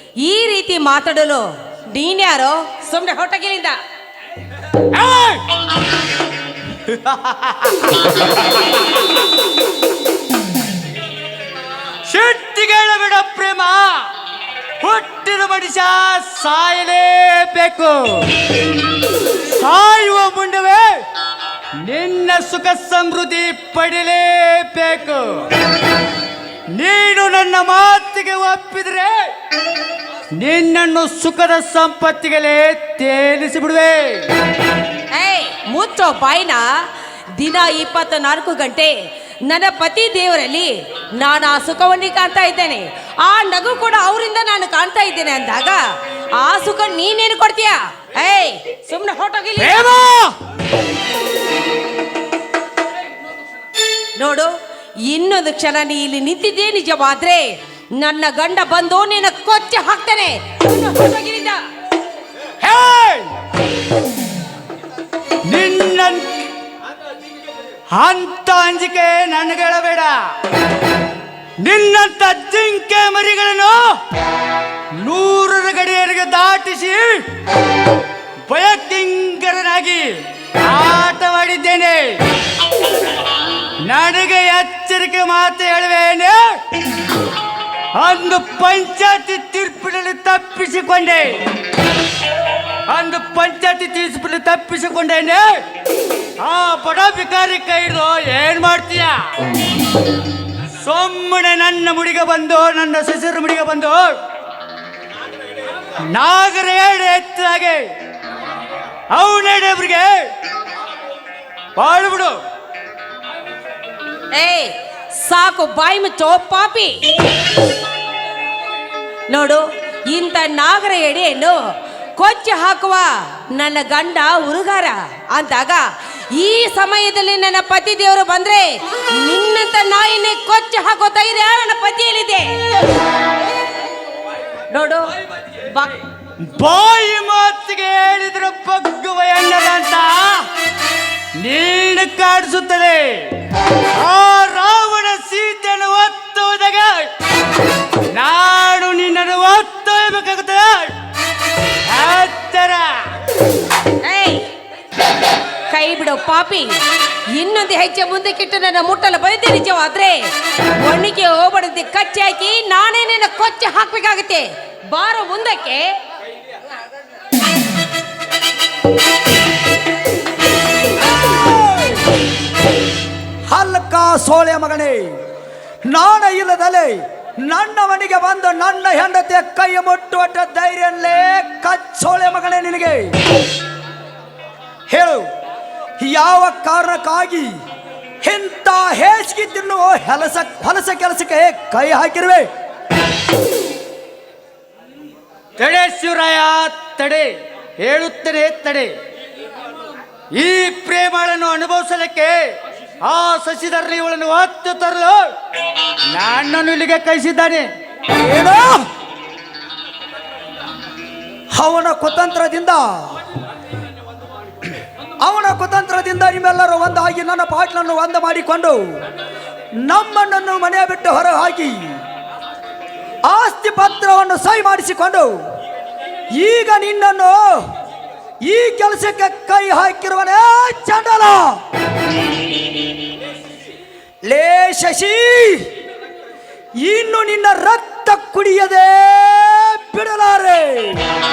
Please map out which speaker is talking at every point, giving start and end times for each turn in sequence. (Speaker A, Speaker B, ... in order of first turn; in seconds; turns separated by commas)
Speaker A: 0.2-3.8, Speaker B: 4.9-5.4, Speaker B: 6.9-8.1, Speaker B: 12.1-14.1, Speaker B: 14.8-18.4, Speaker B: 19.3-20.9, Speaker B: 21.8-25.5, Speaker B: 26.7-29.3, Speaker B: 30.4-34.3, Speaker A: 35.1-36.6, Speaker A: 37.4-38.9, Speaker A: 39.5-45.8, Speaker A: 46.4-49.9, Speaker B: 49.6-50.4, Speaker A: 54.2-54.5, Speaker A: 55.1-61.6, Speaker B: 62.6-63.3, Speaker B: 65.5-66.4, Speaker B: 67.9-70.2, Speaker B: 71.6-73.8, Speaker B: 75.0-77.3, Speaker B: 78.5-82.2, Speaker B: 83.8-86.5, Speaker B: 88.0-91.4, Speaker B: 92.9-95.6, Speaker B: 96.4-99.3, Speaker B: 100.8-104.2, Speaker B: 106.0-107.8, Speaker B: 109.1-110.3, Speaker B: 111.8-112.4, Speaker A: 114.3-117.0, Speaker A: 119.3-121.6, Speaker A: 122.2-132.6, Speaker A: 134.7-136.0, Speaker B: 136.5-140.5, Speaker B: 141.4-143.3, Speaker B: 143.9-147.1, Speaker B: 148.1-150.9, Speaker B: 151.9-152.9, Speaker A: 154.0-154.5, Speaker A: 155.7-156.8, Speaker A: 157.3-166.0, Speaker C: 171.1-172.0, Speaker C: 173.5-175.2, Speaker C: 175.9-183.1, Speaker C: 184.9-185.3, Speaker C: 186.0-187.6, Speaker C: 188.2-192.5, Speaker B: 195.6-198.9, Speaker B: 200.3-205.2, Speaker B: 206.1-207.7, Speaker C: 208.1-208.8, Speaker C: 211.6-213.2, Speaker C: 215.2-219.0, Speaker C: 219.8-222.0, Speaker C: 223.2-225.4, Speaker C: 226.4-227.7, Speaker C: 228.4-231.6, Speaker C: 234.3-235.7, Speaker C: 236.8-241.1